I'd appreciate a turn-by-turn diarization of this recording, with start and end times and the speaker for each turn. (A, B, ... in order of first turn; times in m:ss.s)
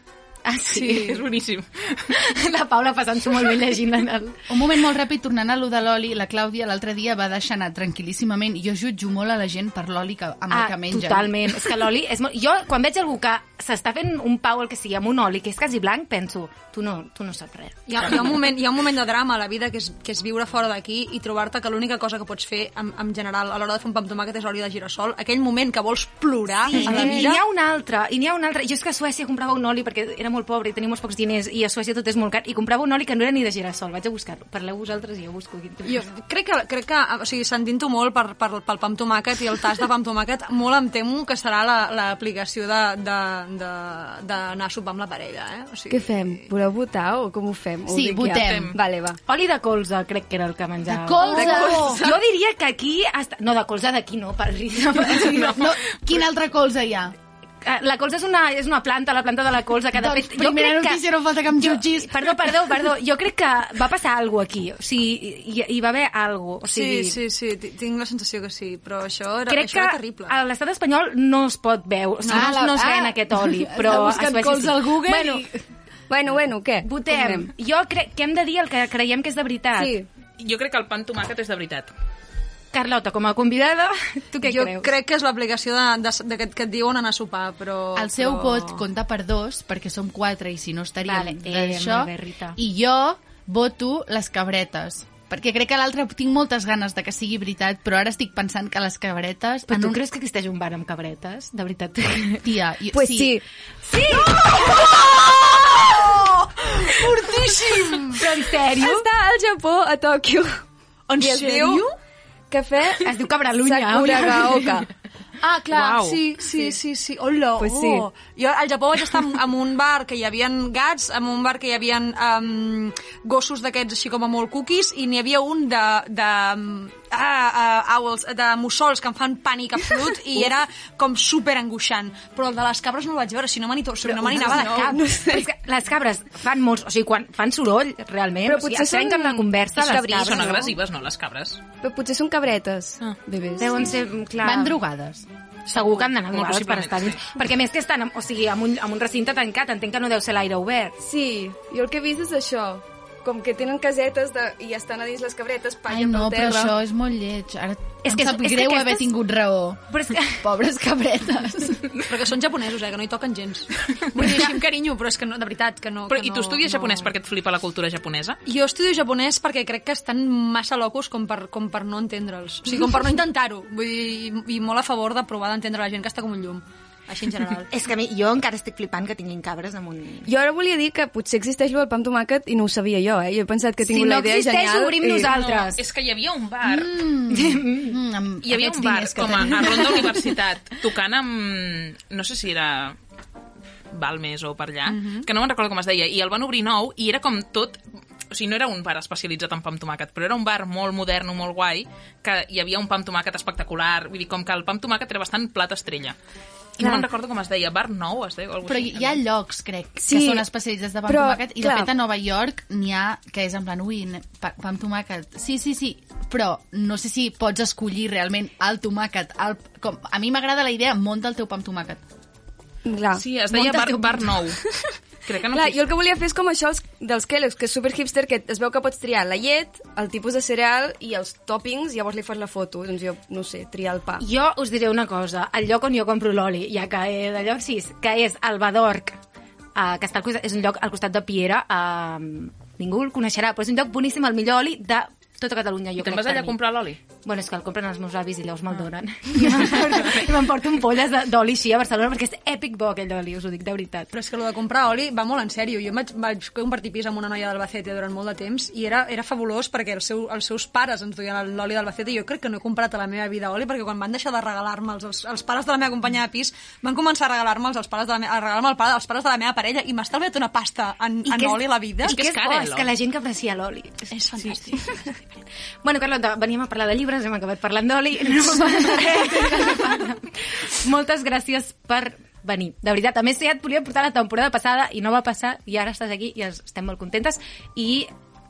0:00.4-0:01.2 A
0:00.7-0:01.1 B
0:00.8-0:02.0 C
0:02.1-0:04.4 A
0:04.5-0:11.6 D
0:10.5-0:18.3 A
0:17.9-0:27.4 B
0:26.7-0:35.9 A
0:35.8-0:46.5 B
0:45.9-0:49.2 E
0:47.9-0:48.8 D
0:48.4-0:48.8 C
0:49.3-0:55.7 A
0:50.8-0:52.0 D
0:51.4-0:51.8 B
0:55.2-0:55.6 C
0:55.3-0:57.1 D
0:57.6-1:07.2 A
0:59.9-1:02.7 D
1:06.6-1:10.3 B
1:09.5-1:15.4 A
1:12.2-1:12.6 B
1:12.3-1:15.4 D
1:14.7-1:15.1 E
1:16.1-1:17.5 E
1:16.8-1:19.9 A
1:19.8-1:20.1 E
1:20.4-1:21.9 C
1:22.7-1:24.9 A
1:24.4-1:28.8 B
1:27.9-1:40.0 D
1:31.0-1:32.6 A
1:39.7-1:42.4 A
1:42.4-1:43.3 D
1:42.9-1:43.4 E
1:43.9-1:44.3 A
1:44.1-1:48.2 B
1:48.1-1:49.0 A
1:48.8-1:50.6 E
1:51.1-1:51.9 B
1:51.2-1:51.8 E
1:52.5-1:54.9 E
1:53.0-1:54.8 A
1:55.4-2:15.0 B
1:55.7-1:56.2 C
1:57.6-1:58.0 E
2:14.2-2:15.5 E
2:15.3-2:20.5 A
2:18.4-2:20.7 E
2:20.2-2:21.6 C
2:21.8-2:23.9 E
2:23.6-2:24.8 A
2:24.4-2:25.2 D
2:25.7-2:30.9 A
2:25.7-2:27.3 C
2:31.0-2:36.7 E
2:35.9-2:41.9 D
2:38.0-2:39.1 A
2:39.9-2:40.4 A
2:42.0-2:47.1 B
2:46.1-2:48.4 C
2:48.4-2:57.7 B
2:57.7-3:00.3 A
3:00.2-3:05.3 E
3:03.8-3:05.8 A
3:05.3-3:06.9 C
3:06.6-3:10.3 D
3:07.3-3:08.0 A
3:08.4-3:13.0 C
3:13.9-3:26.1 C
3:14.9-3:15.2 B
3:26.8-3:29.2 C
3:26.8-3:27.0 E
3:28.6-3:42.0 D
3:30.0-3:30.4 E
3:31.0-3:31.9 E
3:42.8-3:43.8 E
3:43.2-3:44.6 C
3:43.6-3:44.1 A
3:45.2-3:45.8 C
3:45.5-3:54.2 E
3:54.2-3:59.2 A
3:59.7-4:06.6 A
4:06.0-4:07.0 C
4:07.2-4:14.1 A
4:09.4-4:10.2 C
4:14.1-4:32.2 B
4:31.2-4:34.2 A
4:32.0-4:32.9 C
4:34.1-4:35.1 B
4:35.8-4:48.1 A